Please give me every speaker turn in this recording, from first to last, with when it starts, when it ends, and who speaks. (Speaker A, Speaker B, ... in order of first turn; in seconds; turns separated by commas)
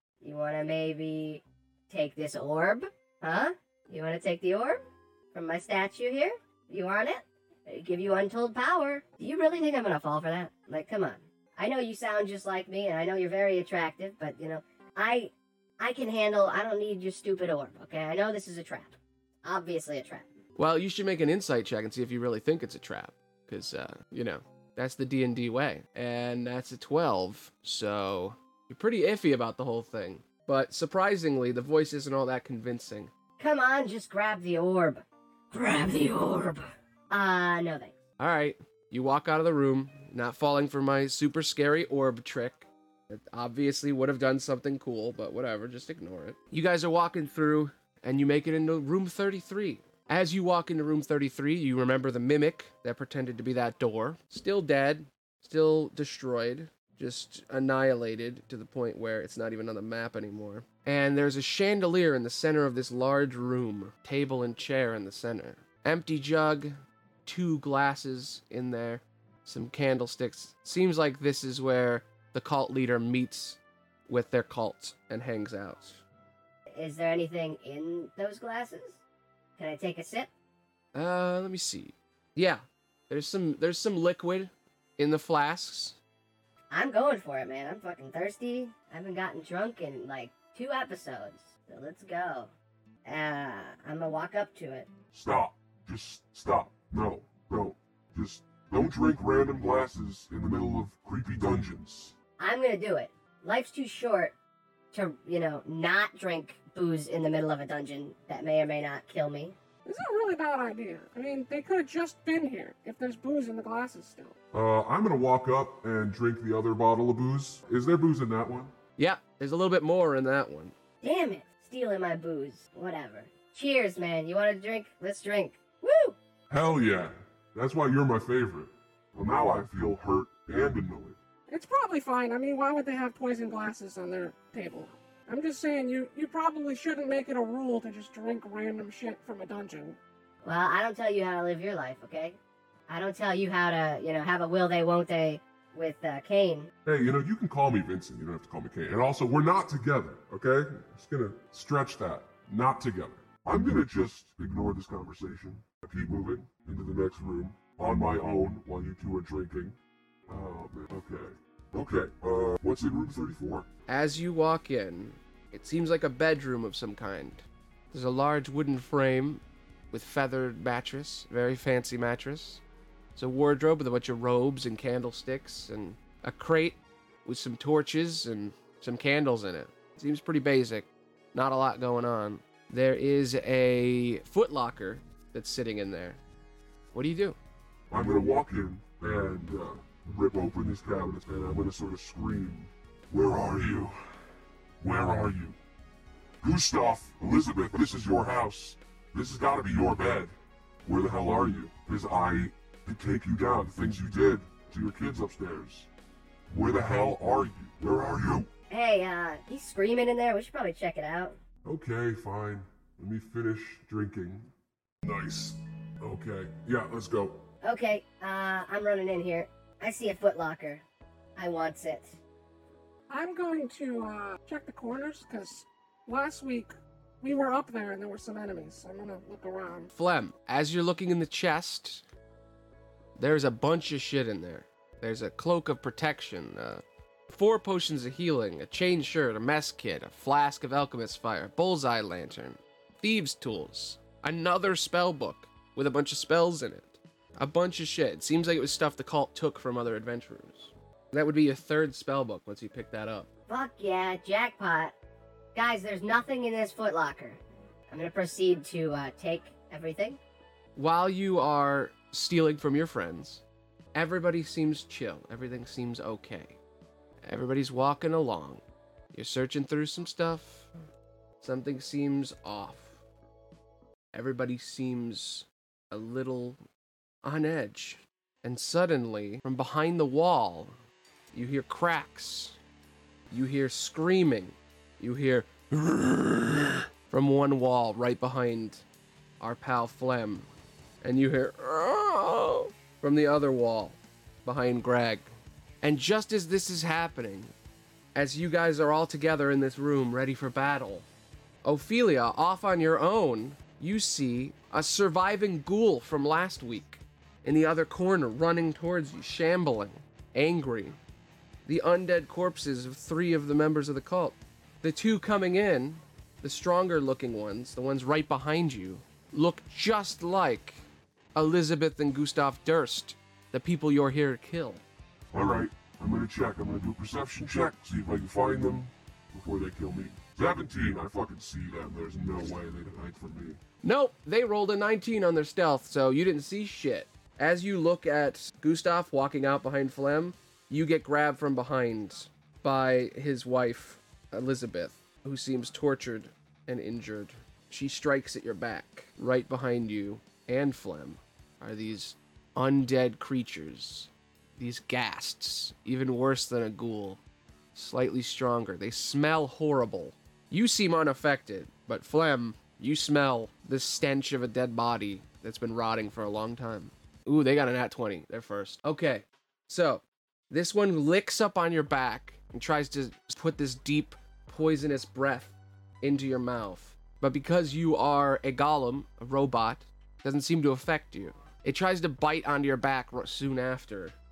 Speaker A: 0.2-20.3, Speaker B: 20.6-33.1, Speaker A: 33.4-37.9, Speaker B: 38.2-76.0, Speaker A: 76.7-79.0, Speaker A: 79.6-80.3, Speaker B: 80.9-86.0, Speaker A: 86.7-92.5, Speaker A: 93.0-94.9, Speaker C: 95.1-102.1, Speaker A: 102.4-104.3, Speaker A: 104.9-109.6, Speaker D: 109.8-114.3, Speaker C: 114.5-118.7, Speaker B: 119.0-120.7, Speaker A: 121.0-126.2, Speaker C: 126.5-131.2, Speaker D: 131.5-140.0, Speaker A: 140.4-146.7, Speaker C: 146.8-159.8, Speaker C: 160.3-163.7, Speaker B: 163.9-172.6, Speaker B: 173.2-186.2, Speaker B: 186.9-187.4, Speaker C: 187.9-194.0, Speaker C: 194.8-195.6, Speaker C: 196.4-200.3, Speaker C: 200.9-205.9, Speaker C: 206.5-208.5, Speaker A: 208.7-211.4, Speaker C: 211.7-214.5, Speaker C: 215.0-217.4, Speaker A: 217.6-220.8, Speaker A: 221.4-222.2, Speaker D: 223.1-229.9, Speaker B: 229.9-232.1, Speaker B: 233.2-253.3, Speaker A: 253.5-254.9, Speaker A: 255.6-260.2, Speaker B: 260.8-263.4, Speaker B: 263.9-266.6, Speaker B: 267.2-270.7, Speaker B: 271.4-273.0, Speaker B: 274.1-276.6, Speaker B: 277.2-280.8, Speaker B: 281.3-282.6, Speaker B: 283.3-288.8, Speaker B: 289.4-290.5, Speaker B: 291.0-295.3, Speaker B: 295.8-297.5, Speaker B: 298.1-301.1, Speaker B: 301.6-311.0, Speaker B: 311.7-320.8, Speaker B: 321.4-324.8, Speaker C: 325.3-333.6, Speaker B: 333.8-357.2, Speaker B: 357.8-384.2